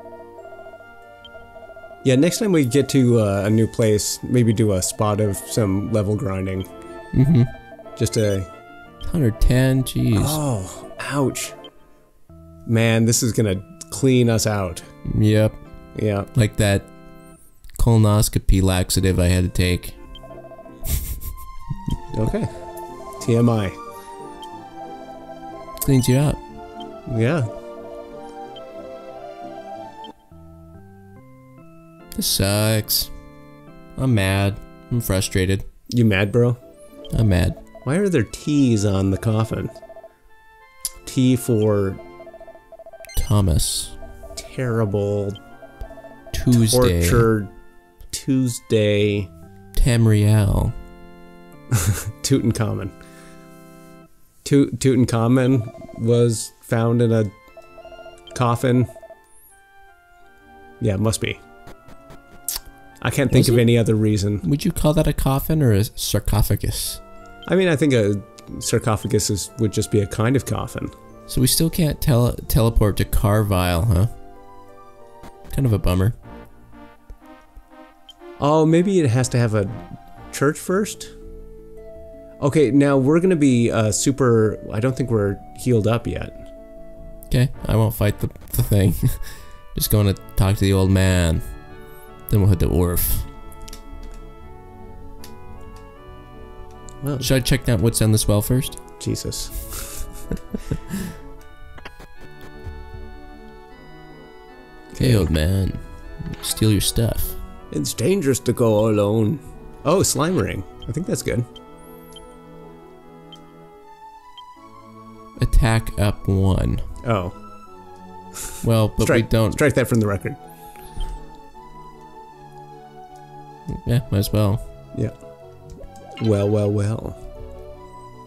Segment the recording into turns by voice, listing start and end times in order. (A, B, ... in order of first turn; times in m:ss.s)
0:02.0-0:06.7 A
0:07.1-0:07.5 B
0:08.0-0:08.5 A
0:09.1-0:10.4 B
0:10.1-0:11.6 A
0:12.6-0:14.9 A
0:15.1-0:15.6 B
0:16.0-0:16.3 A
0:16.3-0:16.9 B
0:17.8-0:20.0 B
0:22.1-0:22.5 A
0:23.2-0:23.8 A
0:25.8-0:26.4 B
0:27.1-0:27.5 A
0:32.2-0:33.1 B
0:34.0-0:35.6 B
0:35.9-0:36.6 A
0:37.1-0:37.6 B
0:37.8-0:39.7 A
0:41.0-0:42.0 A
0:43.2-0:44.0 B
0:44.4-0:45.4 A
0:46.3-0:47.3 B
0:46.5-0:47.5 A
0:48.1-0:49.3 A
0:49.8-0:50.8 B
0:51.7-0:52.9 A
0:54.4-0:57.3 A
0:58.3-0:58.9 A
1:00.8-1:01.4 A
1:03.0-1:04.4 A
1:03.3-1:03.7 B
1:04.4-1:07.0 B
1:07.5-1:10.9 A
1:11.3-1:14.1 B
1:15.5-1:16.2 B
1:18.4-1:21.1 A
1:22.4-1:26.4 A
1:27.3-1:31.4 B
1:32.3-1:33.3 B
1:37.0-1:37.3 A
1:37.2-1:38.8 B
1:39.0-1:40.1 A
1:44.9-1:45.3 A
1:45.0-1:47.4 B
1:47.7-1:51.5 A
1:55.4-1:56.8 B
1:57.0-1:57.4 A
1:58.6-1:59.6 B
1:59.0-2:00.4 A
2:03.7-2:04.6 B
2:06.2-2:07.2 A